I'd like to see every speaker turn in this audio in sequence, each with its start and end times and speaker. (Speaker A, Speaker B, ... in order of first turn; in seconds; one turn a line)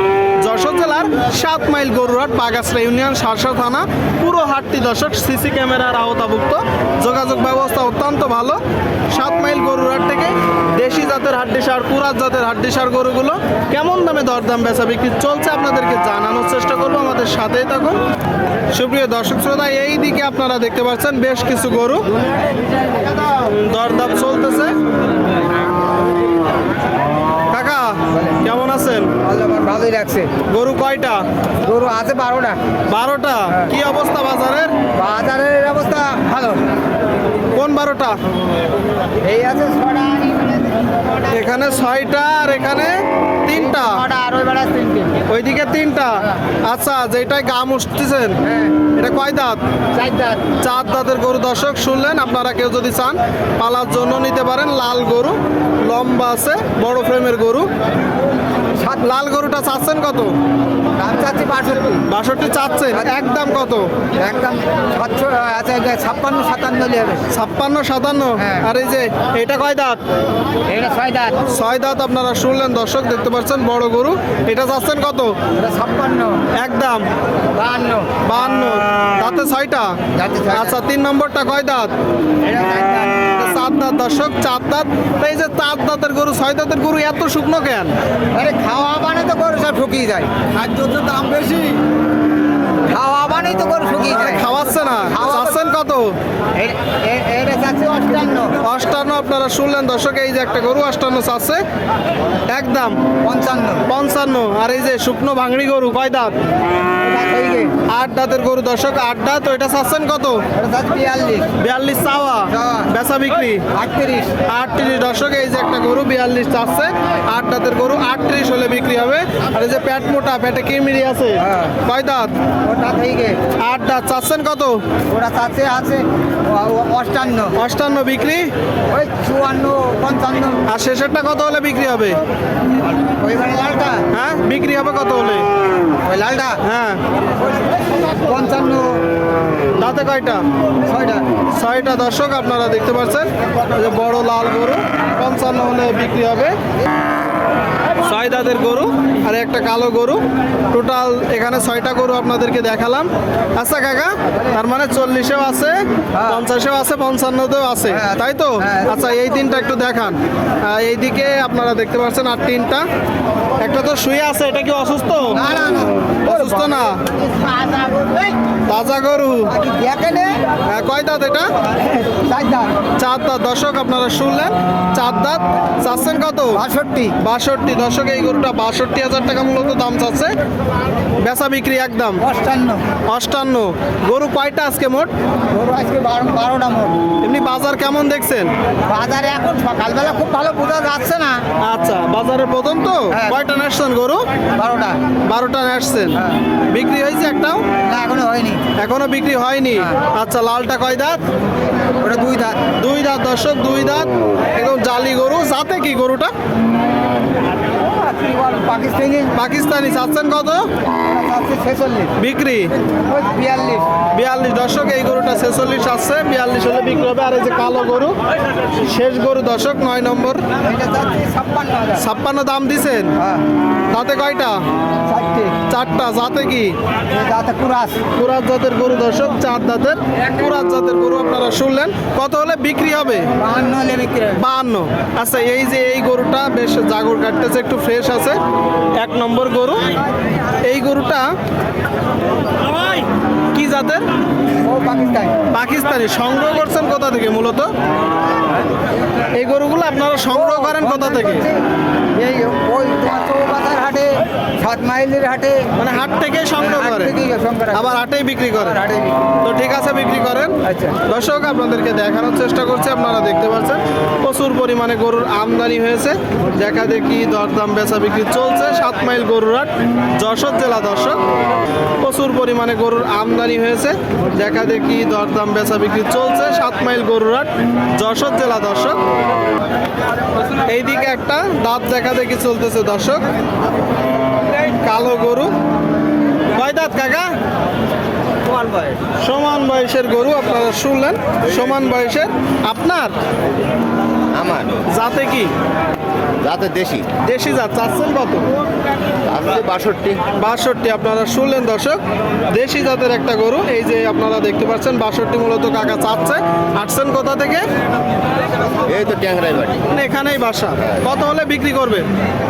Speaker A: 0.4-8.6
Speaker A: 9.1-18.0
Speaker A: 18.7-22.1
Speaker A: 23.2-24.7
Speaker A: 27.5-29.1
Speaker B: 29.2-30.4
Speaker A: 30.5-31.2
Speaker B: 31.6-32.6
Speaker A: 32.9-34.8
Speaker B: 35.0-36.6
Speaker A: 37.5-38.2
Speaker B: 39.2-41.2
Speaker A: 41.3-43.9
Speaker B: 43.5-45.2
Speaker A: 45.3-48.4
Speaker A: 49.0-49.6
Speaker B: 49.9-50.5
Speaker A: 50.6-57.7
Speaker B: 58.8-59.0
Speaker A: 59.0-60.3
Speaker B: 61.0-62.0
Speaker A: 62.1-63.9
Speaker B: 62.9-63.2
Speaker B: 64.2-67.2
Speaker A: 67.3-70.0
Speaker B: 68.4-68.7
Speaker B: 70.7-71.4
Speaker A: 71.5-75.3
Speaker B: 75.6-76.4
Speaker A: 76.5-77.0
Speaker B: 77.5-78.1
Speaker A: 78.2-79.9
Speaker B: 80.2-80.8
Speaker A: 80.5-81.9
Speaker B: 82.4-83.3
Speaker A: 83.2-87.9
Speaker B: 88.3-91.8
Speaker B: 92.9-95.6
Speaker A: 94.1-96.1
Speaker B: 96.5-98.6
Speaker A: 98.6-101.6
Speaker A: 102.5-103.0
Speaker B: 103.2-103.8
Speaker A: 103.9-106.3
Speaker B: 107.0-107.7
Speaker A: 107.9-110.4
Speaker B: 110.6-111.5
Speaker A: 111.6-113.7
Speaker B: 112.5-112.9
Speaker B: 113.7-114.4
Speaker A: 114.5-122.3
Speaker B: 121.4-121.8
Speaker B: 122.7-123.4
Speaker A: 123.6-124.8
Speaker B: 125.1-127.5
Speaker A: 127.6-128.5
Speaker B: 128.9-130.6
Speaker A: 130.7-132.2
Speaker B: 133.2-134.1
Speaker A: 134.1-135.5
Speaker B: 136.0-136.6
Speaker A: 136.6-137.0
Speaker B: 138.2-139.0
Speaker A: 139.8-140.4
Speaker B: 140.8-141.2
Speaker A: 141.5-146.6
Speaker A: 148.0-162.8
Speaker B: 156.2-156.4
Speaker B: 157.9-159.0
Speaker A: 163.6-165.4
Speaker B: 165.3-168.3
Speaker A: 166.3-167.0
Speaker A: 168.7-169.5
Speaker B: 169.5-170.4
Speaker A: 170.7-171.5
Speaker B: 171.9-172.7
Speaker A: 173.0-176.6
Speaker B: 176.5-177.2
Speaker A: 177.2-180.3
Speaker A: 181.2-182.2
Speaker B: 182.2-182.8
Speaker A: 183.1-185.1
Speaker B: 185.5-187.0
Speaker A: 187.2-188.5
Speaker B: 188.9-191.4
Speaker A: 191.6-194.2
Speaker B: 193.1-193.4
Speaker B: 194.6-195.0
Speaker A: 195.3-196.2
Speaker A: 196.7-197.7
Speaker B: 197.8-198.6
Speaker A: 198.8-201.2
Speaker B: 202.0-202.6
Speaker A: 202.8-206.3
Speaker B: 207.8-209.3
Speaker A: 209.4-210.7
Speaker B: 211.0-212.1
Speaker A: 212.2-212.7
Speaker B: 213.1-213.9
Speaker A: 214.1-218.2
Speaker A: 218.8-220.4
Speaker B: 220.6-222.0
Speaker A: 222.0-223.1
Speaker A: 223.9-224.6
Speaker B: 225.1-225.6
Speaker A: 225.7-226.8
Speaker B: 227.1-228.0
Speaker A: 228.1-233.3
Speaker B: 233.4-234.4
Speaker A: 234.4-238.4
Speaker A: 239.0-240.0
Speaker A: 240.6-241.3
Speaker A: 243.5-244.1
Speaker B: 244.6-245.3
Speaker A: 245.5-247.7
Speaker A: 249.3-251.5
Speaker B: 250.3-251.6
Speaker B: 252.1-255.7
Speaker A: 255.8-257.1
Speaker B: 256.6-259.3
Speaker A: 257.7-258.8
Speaker A: 259.4-271.2
Speaker B: 260.6-261.0
Speaker A: 272.0-279.0
Speaker A: 280.6-283.3
Speaker A: 284.8-285.5
Speaker A: 286.5-287.3
Speaker A: 288.8-293.1
Speaker C: 294.4-294.8
Speaker A: 294.9-295.5
Speaker C: 296.4-297.1
Speaker A: 297.2-298.4
Speaker C: 299.3-300.2
Speaker A: 300.4-307.6
Speaker C: 308.7-309.8
Speaker A: 309.9-312.1